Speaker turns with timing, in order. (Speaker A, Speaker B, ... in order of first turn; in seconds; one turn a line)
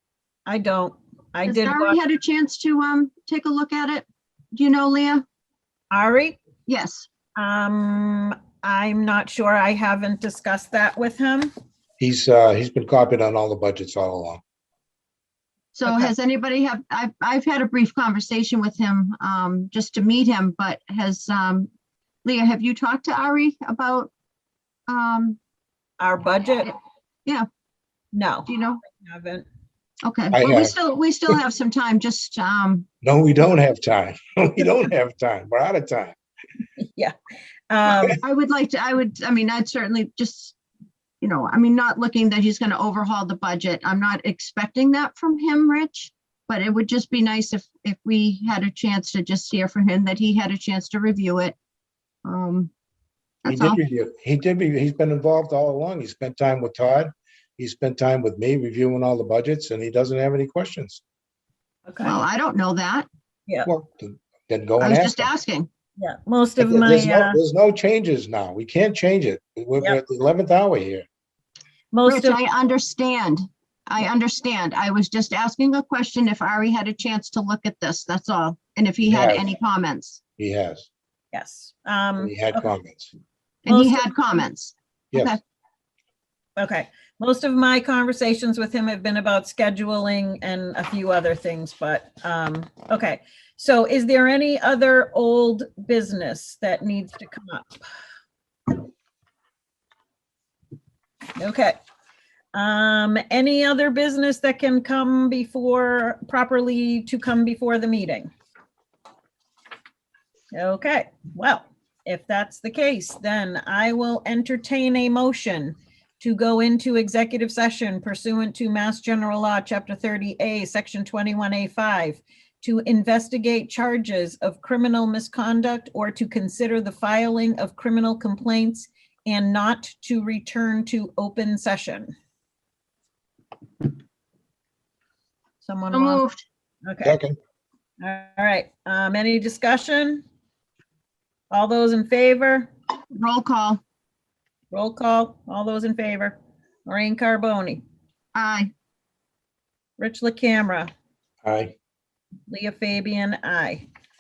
Speaker A: 0.5-2.0
Speaker B: 1.5-5.2
Speaker A: 5.9-6.4
Speaker B: 6.7-7.1
Speaker A: 7.4-11.5
Speaker C: 12.0-14.4
Speaker B: 15.8-21.7
Speaker A: 15.8-16.1
Speaker B: 22.2-24.1
Speaker B: 24.9-25.4
Speaker A: 26.0-26.7
Speaker A: 28.1-29.4
Speaker B: 28.5-28.8
Speaker B: 30.0-32.9
Speaker C: 30.3-30.7
Speaker C: 33.0-36.2
Speaker A: 37.7-38.2
Speaker B: 38.2-40.6
Speaker B: 41.2-51.5
Speaker B: 52.2-52.7
Speaker B: 53.4-53.8
Speaker C: 53.5-61.0
Speaker A: 61.9-62.2
Speaker B: 62.0-63.1
Speaker C: 63.7-65.3
Speaker B: 64.8-65.7
Speaker A: 66.0-67.4
Speaker C: 66.6-71.1
Speaker A: 71.9-72.4
Speaker B: 72.0-80.2
Speaker C: 79.0-79.5
Speaker C: 80.4-80.9
Speaker A: 81.3-82.7
Speaker C: 82.2-83.1
Speaker B: 83.7-85.4
Speaker A: 83.7-84.1
Speaker A: 86.6-97.9
Speaker A: 101.4-101.8
Speaker A: 102.5-108.3
Speaker A: 110.5-132.1
Speaker A: 135.6-136.2
Speaker B: 135.9-136.4
Speaker A: 136.9-137.2
Speaker C: 137.0-137.4
Speaker A: 138.0-140.2
Speaker A: 141.5-142.7
Speaker B: 143.1-143.8
Speaker A: 144.7-147.8
Speaker B: 148.3-148.7
Speaker A: 150.0-150.9
Speaker C: 151.4-151.8
Speaker A: 152.5-153.8